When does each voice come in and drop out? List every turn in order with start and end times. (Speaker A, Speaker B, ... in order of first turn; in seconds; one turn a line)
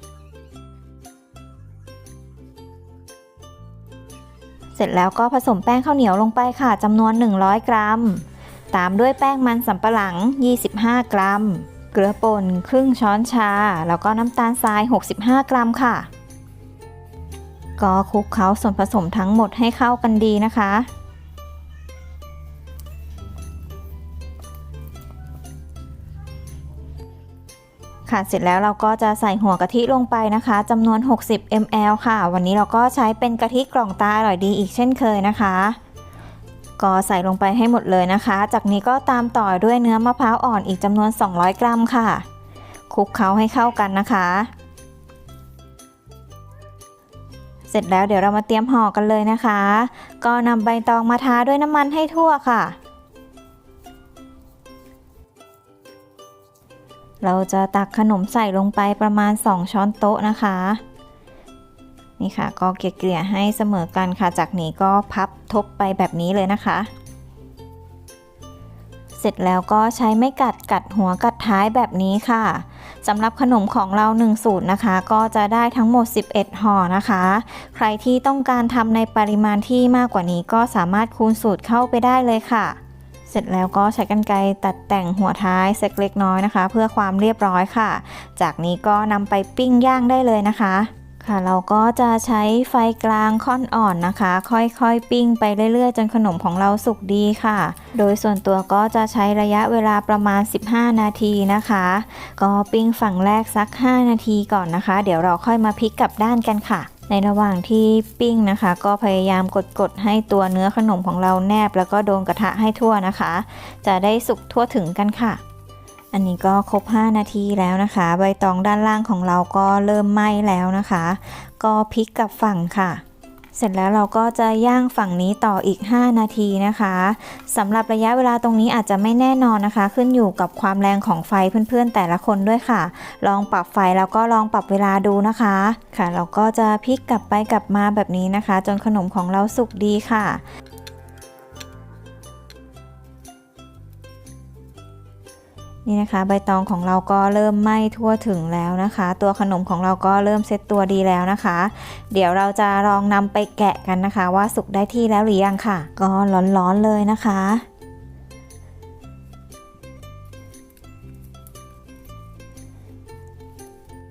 Speaker A: 4.8-16.1
Speaker A: 17.8-20.9
Speaker A: 28.1-35.8
Speaker A: 36.8-42.2
Speaker A: 42.9-44.5
Speaker A: 47.7-52.8
Speaker A: 57.2-60.8
Speaker A: 62.2-66.9
Speaker A: 69.2-115.4
Speaker A: 116.1-123.0
Speaker A: 123.5-140.4
Speaker A: 145.9-157.7